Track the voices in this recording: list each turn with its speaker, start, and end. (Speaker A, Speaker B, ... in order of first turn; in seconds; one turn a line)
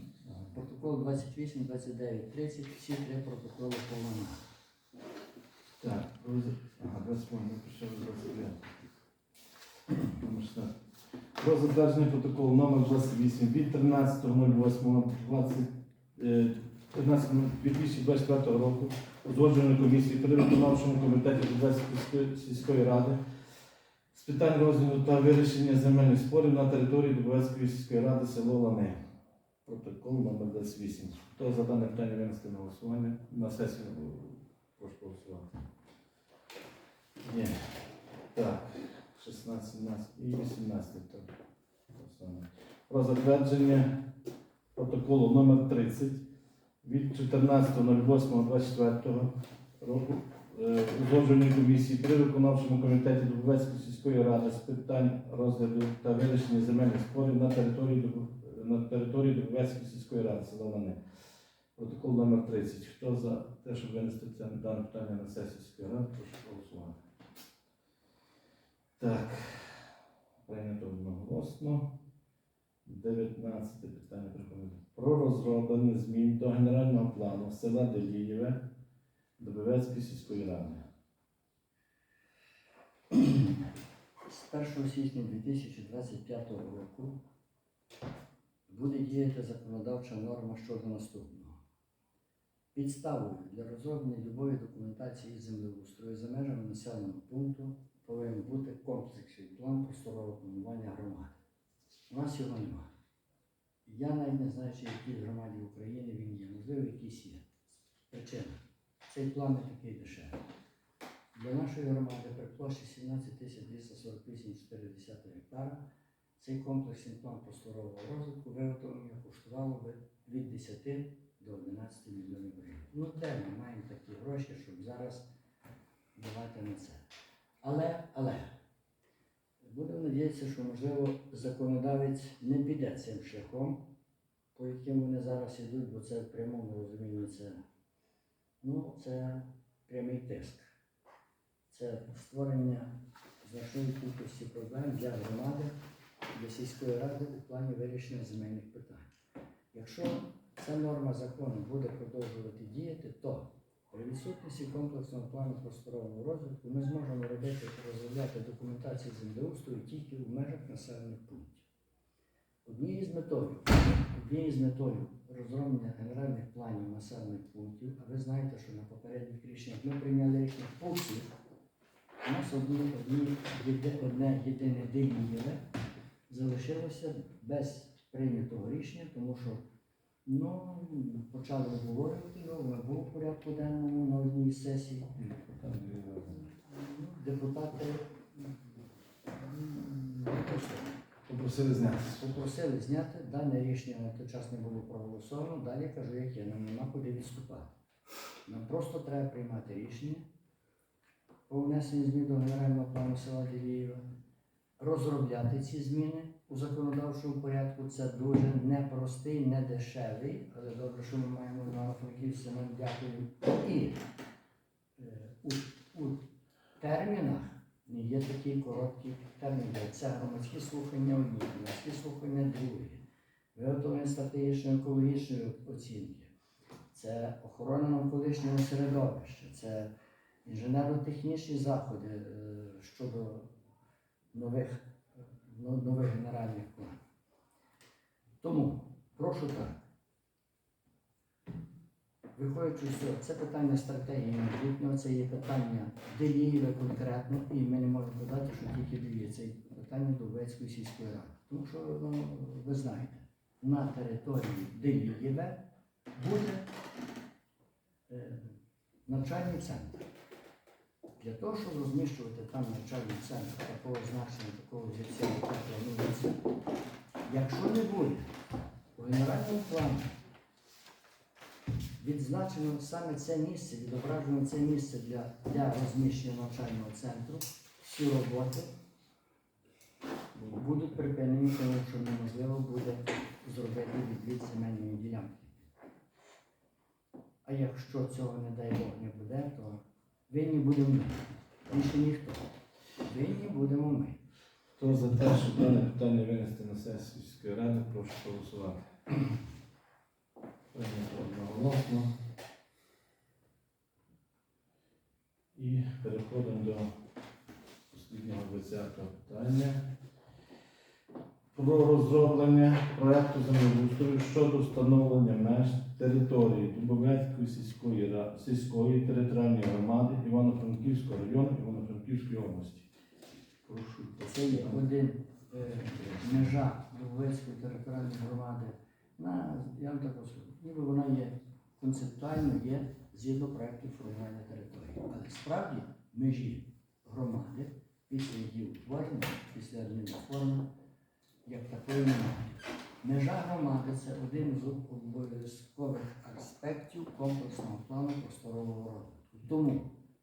Speaker A: 0.2-0.5
Speaker B: 0.5-4.5
Speaker A: 5.8-8.7
Speaker A: 10.0-10.7
Speaker A: 11.4-23.2
Speaker A: 24.1-28.9
Speaker A: 29.6-35.5
Speaker A: 37.2-41.3
Speaker A: 41.9-44.1
Speaker A: 44.7-46.2
Speaker A: 46.8-61.0
Speaker A: 61.8-67.0
Speaker A: 69.0-69.9
Speaker A: 70.4-72.0
Speaker A: 72.8-78.6
Speaker A: 79.4-80.8
Speaker B: 83.1-83.5
Speaker B: 84.2-87.2
Speaker B: 88.7-91.6
Speaker B: 92.7-101.4
Speaker B: 102.1-102.9
Speaker B: 103.8-107.5
Speaker B: 108.1-110.4
Speaker B: 111.3-115.9
Speaker B: 116.4-125.3
Speaker B: 126.2-127.0
Speaker B: 127.6-128.6
Speaker B: 129.6-133.9
Speaker B: 134.5-137.6
Speaker B: 138.6-140.7
Speaker B: 141.7-145.8
Speaker B: 146.3-149.1
Speaker B: 149.7-161.7
Speaker B: 162.6-171.3
Speaker B: 172.2-175.6
Speaker B: 176.3-179.6
Speaker B: 180.2-185.1
Speaker A: 185.2-186.4
Speaker B: 186.4-191.0
Speaker A: 191.2-192.2
Speaker B: 192.2-197.7
Speaker B: 198.4-200.3
Speaker B: 201.5-204.0
Speaker B: 204.8-214.0
Speaker B: 215.0-216.3
Speaker B: 216.8-223.0
Speaker B: 223.5-226.3
Speaker B: 226.9-229.9
Speaker B: 230.4-233.5
Speaker B: 234.3-237.0
Speaker B: 238.4-239.9
Speaker B: 242.3-255.6
Speaker B: 256.1-256.7
Speaker B: 258.1-260.1
Speaker B: 261.2-266.4
Speaker B: 267.2-268.3
Speaker B: 268.9-270.1
Speaker B: 272.0-278.7
Speaker A: 280.3-280.8
Speaker B: 280.5-285.7
Speaker B: 287.4-292.5
Speaker B: 293.0-294.2
Speaker A: 294.8-298.8
Speaker A: 300.7-302.1
Speaker A: 305.5-306.9
Speaker A: 307.9-309.9
Speaker A: 311.5-322.9
Speaker A: 323.6-324.8
Speaker B: 324.2-340.7
Speaker A: 325.9-326.5
Speaker B: 341.4-350.0